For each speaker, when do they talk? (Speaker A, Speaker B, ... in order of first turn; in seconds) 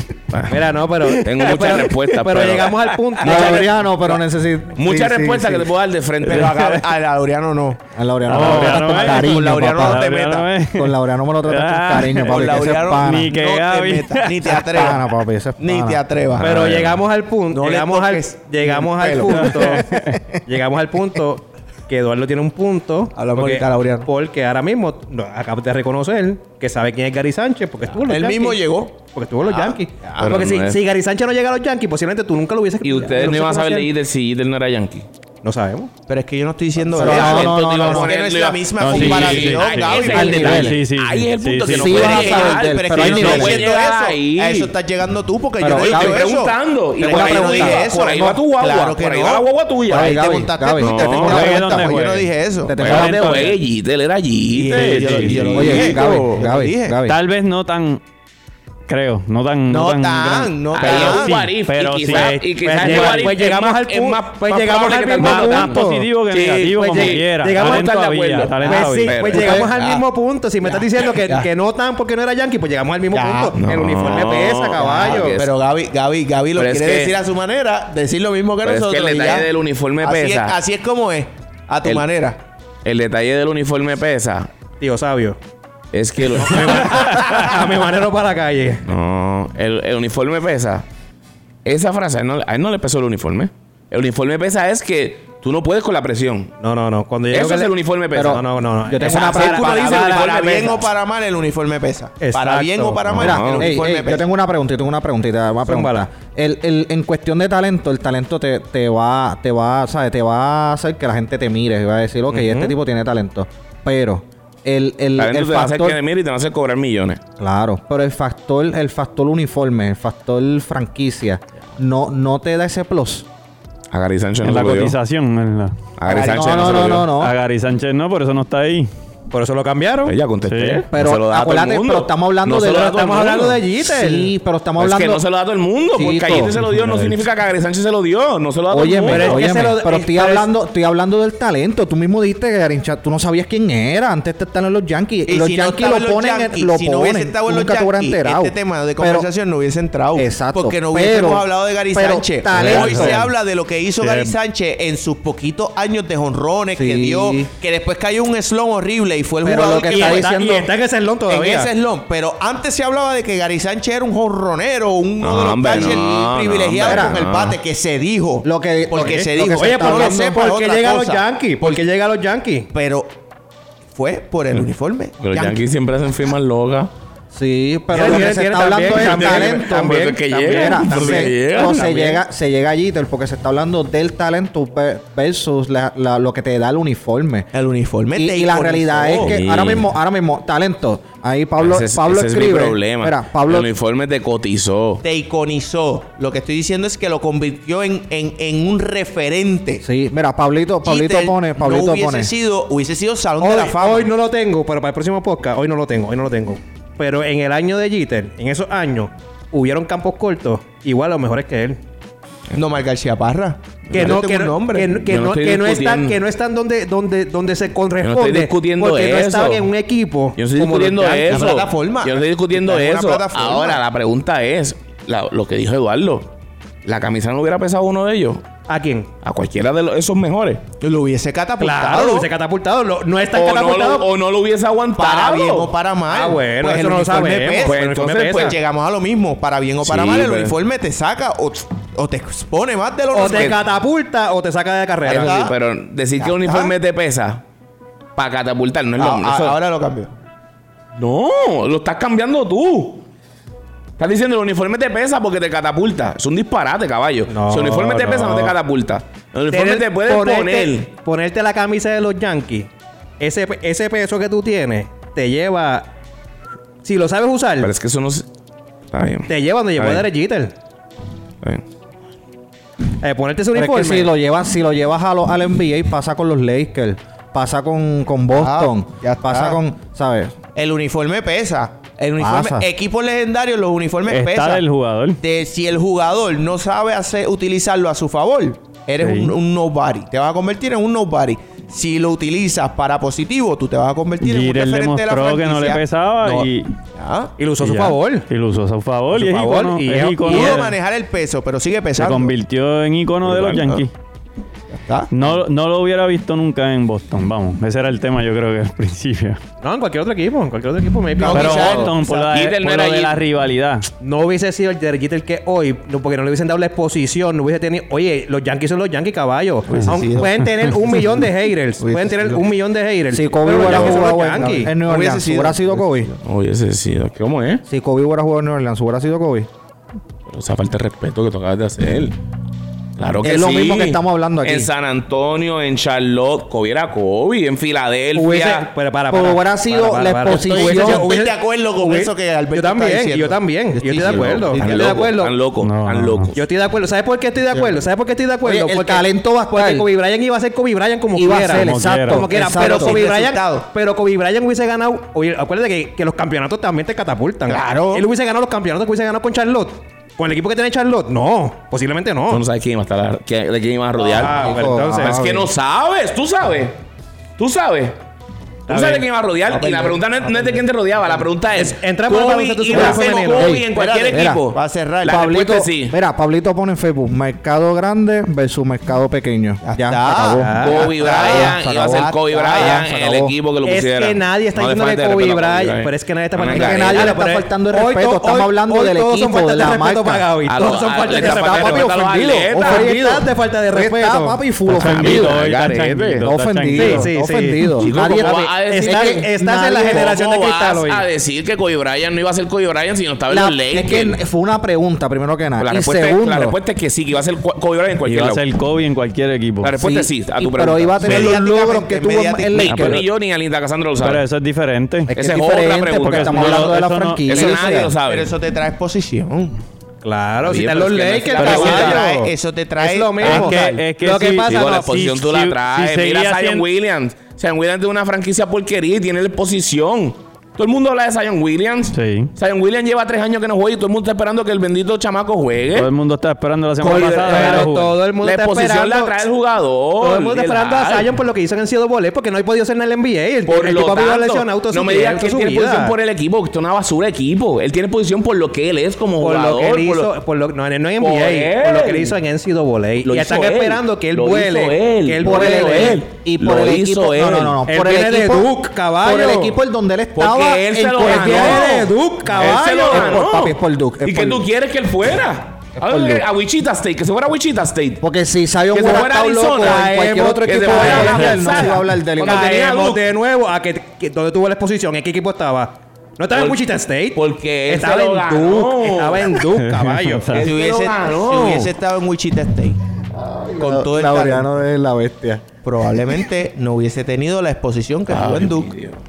Speaker A: 0.3-0.6, 1.2-4.2, 4.8-6.6, 16.4-16.8, 30.2-30.8, 32.8-35.1, 36.9-44.7, 45.7-50.2, 50.8-51.6, 52.8-56.3, 60.7-69.9, 73.6-75.5, 76.5-77.2, 78.6-80.6, 82.8-84.5, 85.9-87.5, 88.8-90.8, 91.6-96.5, 97.3-98.4, 99.0-100.9, 103.0-103.7, 115.2-117.2, 123.9-125.0, 126.0-127.1, 130.0-133.6, 134.8-139.7, 165.2-167.6, 175.2-176.9, 178.0-178.2, 178.9-182.2, 189.2-189.9, 191.6-195.0, 213.9-214.2, 215.0-216.2, 218.0-219.7, 220.4-226.3, 226.8-228.4, 229.2-230.6, 233.3-235.7, 237.6-238.6, 239.8-240.6, 243.2-243.6, 245.1-247.4, 248.2-249.6, 250.9-253.1, 254.0-260.9, 267.6-268.3, 268.9-270.1, 303.3-303.8, 311.5-313.2, 326.2-327.6, 330.3-332.2, 332.9-338.7, 344.0-346.4, 362.3-366.8, 367.4-368.0, 368.7-375.9, 380.6-387.1, 390.5-392.9, 394.7-396.2, 397.8-399.3, 399.8-404.2, 405.6-408.4, 409.6-411.4, 412.6-414.2, 415.1-418.3, 420.4-422.0, 423.2-423.6, 424.4-435.9, 436.8-441.1, 443.5-450.1, 451.0-452.1, 453.0-457.6, 460.1-468.0, 468.7-473.0, 476.3-476.6, 477.1-479.4, 480.3-481.7, 488.1-489.0
Speaker B: 0.5-3.7, 16.4-33.9, 35.4-35.9, 62.0-65.8, 66.8-75.4, 84.8-85.4, 86.3-88.8, 96.6-99.7, 102.2-103.0, 105.7-106.1, 112.3-112.7, 129.3-130.2, 132.6-134.3, 139.1-140.5, 159.5-161.7, 169.0-172.7, 177.9-181.9, 203.4-211.8, 213.9-221.5, 228.7-229.1, 231.6-234.1, 236.1-238.6, 243.1-245.4, 257.3-258.6, 259.5-262.7, 263.2-265.9, 266.8-267.7, 269.3-270.5, 273.0-274.1, 297.4-298.3, 299.1-300.7, 309.6-312.0, 314.0-324.7, 338.1-345.4, 346.3-362.4, 364.0-365.2, 368.7-369.1, 371.5-373.6, 380.4-380.9, 383.6-394.4, 396.7-401.1, 420.0-425.2, 436.8-439.2, 440.0-445.9, 449.2-456.0, 457.6-459.6, 461.0-463.3, 468.8-480.4
Speaker C: 3.2-5.7, 7.9-10.1, 10.7-13.3, 14.5-16.0, 37.0-38.1, 40.1-40.8, 41.7-43.7, 45.6-46.3, 47.0-47.9, 49.9-51.9, 52.6-53.5, 55.5-57.2, 65.2-66.0, 69.3-69.7, 98.1-100.3, 103.2-116.0, 117.4-123.3, 126.0-127.3, 130.9-133.1, 133.8-135.2, 135.9-137.2, 138.7-149.3, 150.1-153.3, 156.7-157.5, 159.4-160.7, 166.8-167.2, 168.4-170.3, 177.3-187.5, 188.1-193.7, 199.8-202.3, 273.5-280.3, 282.2-282.7, 323.1-326.1, 327.7-329.5, 333.2-334.7, 339.1-341.1, 348.4-349.9, 351.1-353.1, 364.2-365.5, 372.7-374.4, 375.1-383.3, 386.5-390.4, 391.1-395.4, 396.2-400.1, 403.3-406.6, 409.8-413.1, 415.1-417.9, 423.2-423.5, 455.2-464.5, 465.8-466.2, 468.0-472.6, 483.2-485.4
Speaker D: 6.2-10.5, 12.2-16.7, 17.5-19.8, 23.1-24.1, 27.9-30.2, 36.1-40.7, 41.8-52.8, 54.5-57.0, 59.7-61.4, 69.7-70.0, 70.6-71.5, 73.1-73.6, 74.8-82.4, 99.4-104.3, 145.3-160.4, 161.3-171.8, 172.7-173.2, 173.9-175.6, 187.5-189.4, 195.0-199.8, 200.8-204.1, 212.5-215.0, 221.3-223.8, 230.8-232.3, 234.9-243.6, 245.1-245.6, 246.2-246.7, 249.0-250.1, 278.3-279.6, 280.5-284.6, 285.2-297.3, 300.2-302.3, 303.4-303.8, 304.7-305.4, 311.2-312.3, 319.7-321.2, 321.8-322.4, 324.8-326.2, 340.3-345.1, 352.3-353.7, 357.5-358.1, 369.5-371.3, 373.7-375.3, 379.6-382.8, 411.0-412.9, 417.3-419.6, 421.4-423.4, 480.4-482.8, 483.6-484.5, 485.6-488.7
Speaker E: 6.3-6.8, 8.3-14.8, 19.3-20.2, 38.8-42.1, 51.2-53.5, 54.7-55.6, 57.0-58.0, 58.9-63.2, 65.2-69.3, 124.4-125.8, 126.5-128.9, 130.4-130.8, 152.7-153.2, 154.0-154.3, 284.1-285.2, 289.0-289.3, 294.2-296.7, 297.6-300.8, 301.9-303.9, 305.1-309.4, 311.3-313.9, 345.6-346.3, 351.5-352.2, 394.7-397.1, 408.0-409.8, 414.0-415.1, 416.0-417.3, 423.2-426.6, 431.9-432.3, 435.7-437.9, 479.6-480.5